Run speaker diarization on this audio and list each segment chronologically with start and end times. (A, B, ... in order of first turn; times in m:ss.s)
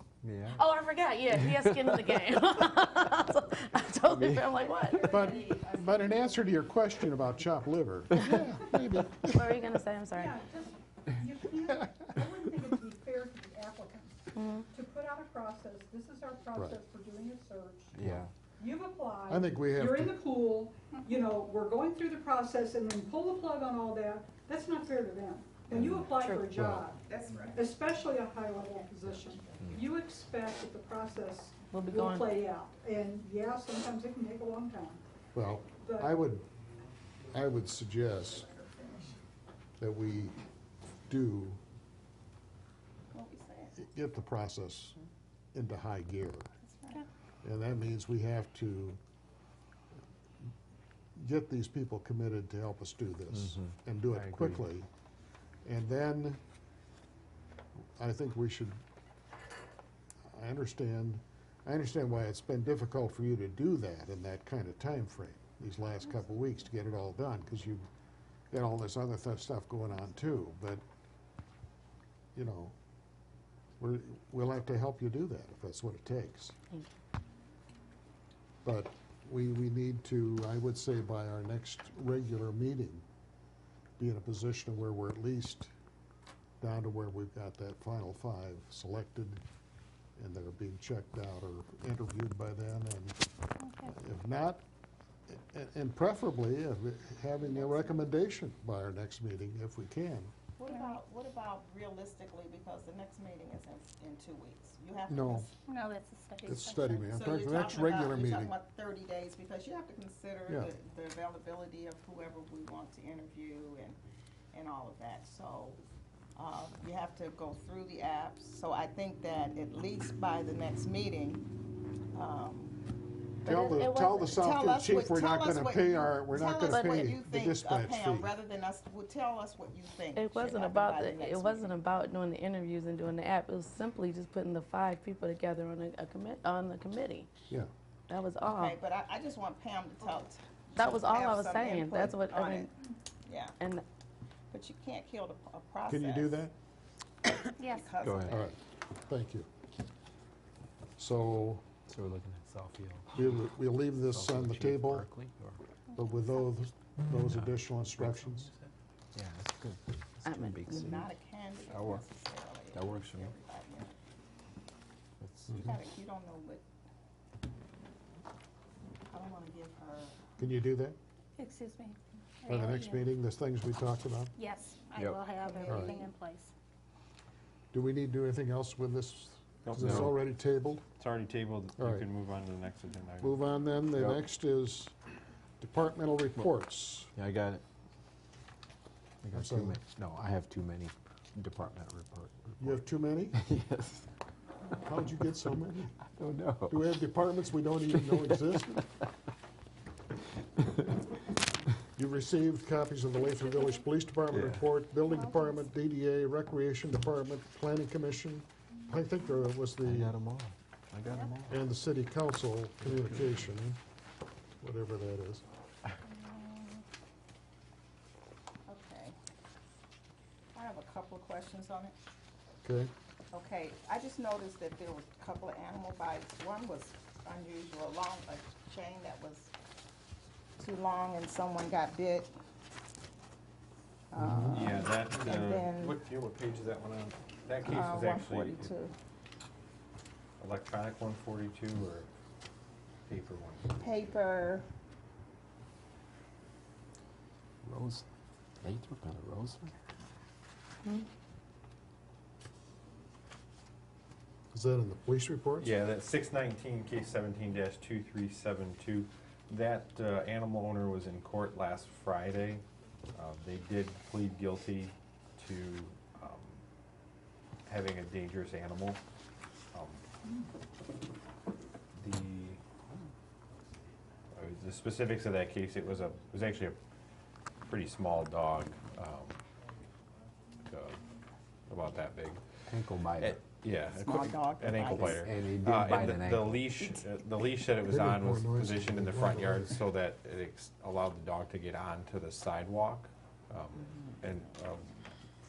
0:00.2-0:00.6 A
0:00.5-0:05.1 B
0:01.4-0:02.0 A
0:04.0-0:04.5 A
0:04.6-0:06.6 C
0:05.0-0:09.6 D
0:09.3-0:10.4 B
0:10.1-0:18.0 E
0:14.3-0:14.7 B
0:16.6-0:16.8 D
0:17.9-0:18.3 A
0:18.6-0:27.0 E
0:19.3-0:20.2 D
0:25.8-0:26.0 A
0:26.1-0:26.5 B
0:26.5-0:26.9 D
0:27.1-0:27.7 C
0:27.5-0:35.0 E
0:29.6-0:29.8 A
0:31.7-0:32.4 B
0:35.3-0:36.5 D
0:35.8-0:36.2 E
0:37.3-0:38.5 D
0:38.8-0:39.1 E
0:39.8-0:40.4 D
0:41.1-0:41.6 D
0:43.1-0:43.8 C
0:43.8-0:45.0 D
0:45.5-0:46.5 D
0:46.8-0:47.1 C
0:47.4-0:49.0 D
0:51.2-0:54.9 D
0:53.4-0:54.7 A
0:55.6-0:56.4 D
0:58.0-0:58.8 D
1:00.3-1:07.9 D
1:08.5-1:10.8 D
1:12.4-1:12.8 D
1:13.8-1:16.6 D
1:18.6-1:23.0 D
1:24.0-1:25.7 D
1:26.6-1:29.4 D
1:30.2-1:33.2 D
1:33.6-1:33.9 F
1:33.9-1:34.6 D
1:35.3-1:40.3 D
1:37.4-1:38.1 C
1:40.6-1:45.5 C
1:45.1-1:45.5 D
1:45.7-1:47.1 F
1:46.4-1:48.5 D
1:47.1-1:54.0 C
1:50.5-1:50.7 D
1:54.5-1:55.8 C
1:56.4-2:01.4 C
2:02.1-2:02.8 C
2:03.4-2:08.3 D
2:03.5-2:04.4 B
2:04.3-2:11.7 C
2:06.7-2:07.1 B
2:10.2-2:17.3 B
2:18.1-2:18.8 B
2:18.5-2:23.6 C
2:20.8-2:22.7 B
2:23.6-2:23.8 B
2:24.5-2:26.4 C
2:25.9-2:26.6 D
2:27.3-2:28.5 C
2:27.6-2:27.9 F
2:28.0-2:28.4 A
2:28.3-2:29.5 D
2:31.0-2:31.6 D
2:31.9-2:33.4 A
2:33.2-2:35.1 D
2:34.0-2:35.6 A
2:36.0-2:38.5 D
2:37.3-2:42.1 A
2:40.3-2:40.9 B
2:40.8-2:43.9 C
2:42.7-2:43.4 A
2:45.2-2:45.8 A
2:45.5-2:46.6 C
2:49.1-2:50.2 C
2:50.4-2:51.0 D
2:51.4-2:53.1 F
2:52.5-2:54.3 D
2:54.4-2:56.5 F
2:55.0-2:55.2 A
2:55.3-2:56.1 C
2:55.7-2:56.0 D
2:57.7-3:00.8 D
2:59.6-3:00.1 G
2:59.8-3:00.2 A
3:01.0-3:03.4 G
3:01.8-3:02.1 D
3:03.2-3:04.9 D
3:04.0-3:04.3 A
3:05.6-3:07.1 D
3:07.2-3:07.6 A
3:09.2-3:12.8 A
3:09.3-3:09.8 D
3:12.6-3:13.4 D
3:13.3-3:14.0 A
3:14.8-3:16.0 D
3:16.1-3:17.0 A
3:16.7-3:18.8 D
3:17.9-3:19.0 A
3:20.6-3:20.9 A
3:22.0-3:30.1 D
3:24.3-3:24.7 A
3:29.8-3:31.6 A
3:31.5-3:33.8 D
3:32.8-3:33.4 A
3:34.6-3:35.4 D
3:36.2-3:36.8 C
3:38.7-3:39.2 C
3:40.5-3:42.0 C
3:42.6-3:42.9 D
3:43.3-3:49.5 C
3:50.6-3:52.3 C
3:54.1-3:56.0 C
3:54.2-3:54.6 D
3:54.5-3:58.7 G
3:57.6-3:58.9 C
4:00.4-4:02.1 G
4:03.1-4:03.8 G
4:03.8-4:04.7 C
4:07.6-4:08.1 A
4:08.6-4:09.7 A
4:14.5-4:15.7 D
4:15.6-4:26.6 G
4:27.6-4:29.0 G
4:29.7-4:30.0 G
4:32.0-4:32.6 G
4:34.4-4:36.8 G
4:37.7-4:39.4 G
4:40.7-4:41.0 G
4:41.7-4:42.4 G
4:42.7-4:43.4 A
4:43.2-4:55.0 G
4:43.9-4:45.3 C
4:44.8-4:46.6 A
4:47.8-4:49.8 D